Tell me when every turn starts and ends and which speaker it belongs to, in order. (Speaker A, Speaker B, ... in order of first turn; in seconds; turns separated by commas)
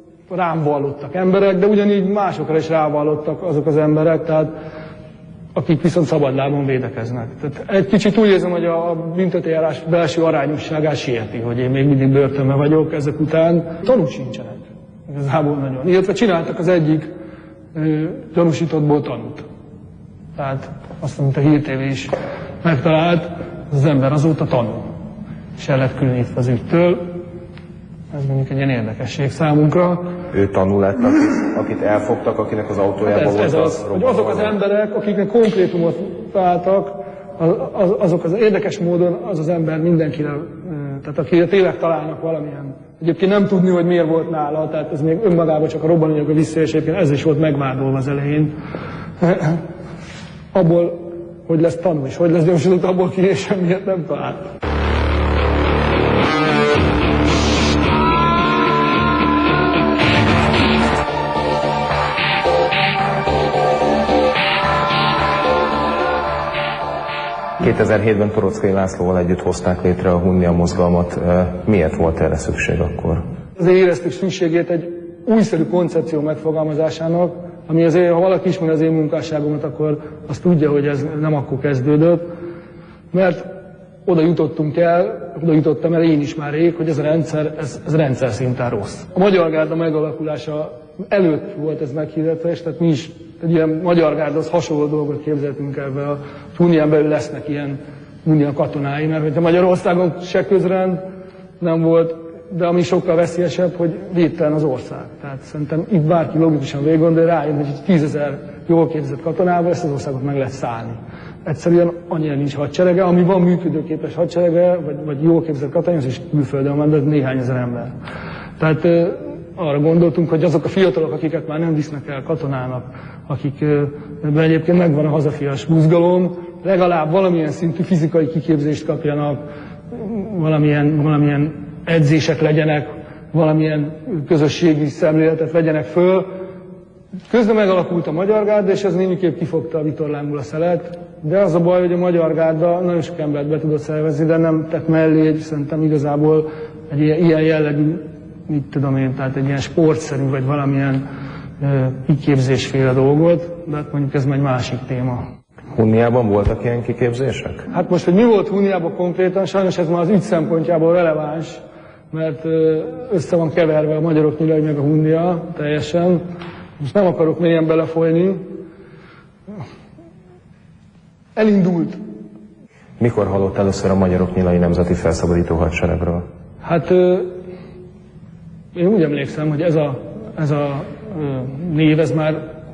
Speaker A: 0.3-4.5, Speaker A: 5.5-17.1, Speaker A: 17.7-19.4, Speaker A: 20.4-22.1, Speaker A: 22.6-24.9, Speaker A: 25.6-27.1, Speaker A: 28.1-30.1, Speaker B: 30.3-34.6, Speaker A: 33.0-48.5, Speaker A: 49.2-49.6, Speaker A: 50.5-54.5, Speaker B: 67.6-73.2, Speaker A: 73.6-82.3, Speaker A: 83.1-83.5, Speaker A: 84.0-101.0, Speaker A: 101.6-117.9, Speaker A: 118.6-129.4, Speaker A: 129.9-136.3, Speaker A: 137.3-151.0, Speaker A: 151.6-155.2, Speaker B: 155.8-157.7, Speaker A: 157.7-166.2, Speaker A: 166.8-168.4, Speaker A: 171.3-172.0, Speaker B: 173.0-176.2, Speaker A: 176.6-177.3, Speaker A: 178.8-182.4